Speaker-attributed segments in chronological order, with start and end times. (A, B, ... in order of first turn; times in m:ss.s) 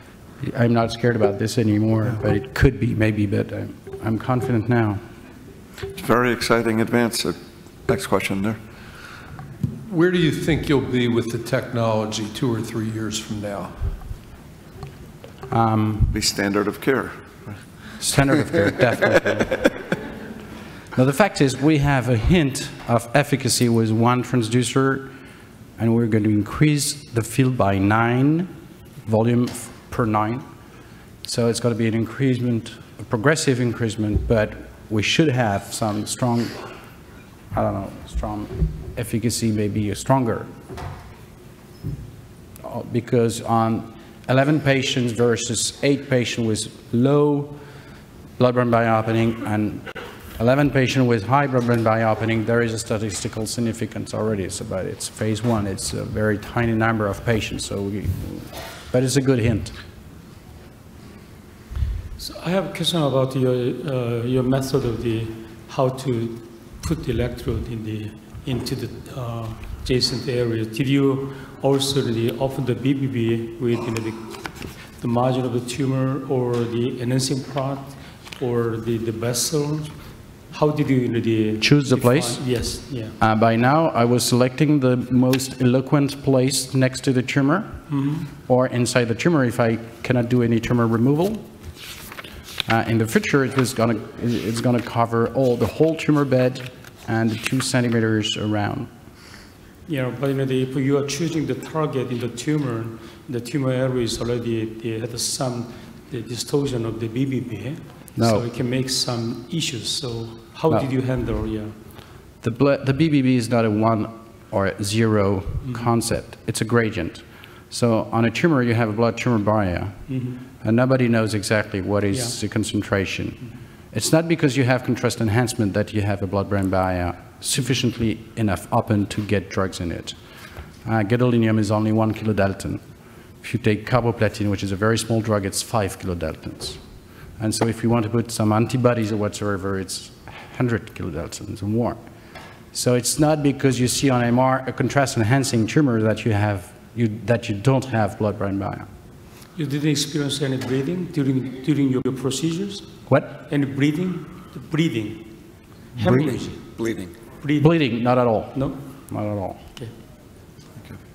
0:00.4-0:05.0 A
0:06.0-0:07.4 B
0:07.9-0:08.6 B
0:09.9-0:13.8 C
0:15.5-0:16.1 A
0:16.1-0:17.3 B
0:18.0-0:19.6 A
0:20.9-0:25.1 A
0:25.8-0:28.5 A
0:29.1-0:30.4 A
0:31.2-0:36.6 A
0:37.5-0:40.5 A
0:42.6-0:47.6 A
0:48.4-0:59.8 A
1:02.2-1:14.4 D
1:15.0-1:20.0 D
1:20.5-1:23.2 D
1:21.6-1:22.4 A
1:23.2-1:27.8 A
1:27.9-1:28.3 D
1:28.4-1:31.5 A
1:32.7-1:38.9 A
1:39.9-1:51.7 D
1:48.2-1:48.4 A
1:52.4-2:10.2 A
1:55.6-1:55.9 D
2:00.1-2:00.4 D
2:02.1-2:02.4 D
2:10.8-2:12.8 A
2:13.4-2:16.8 A
2:17.4-2:22.0 A
2:22.7-2:28.9 A
2:29.5-2:35.3 D
2:33.1-2:33.4 A
2:36.0-2:37.8 D
2:36.0-2:37.1 B
2:37.6-2:39.6 A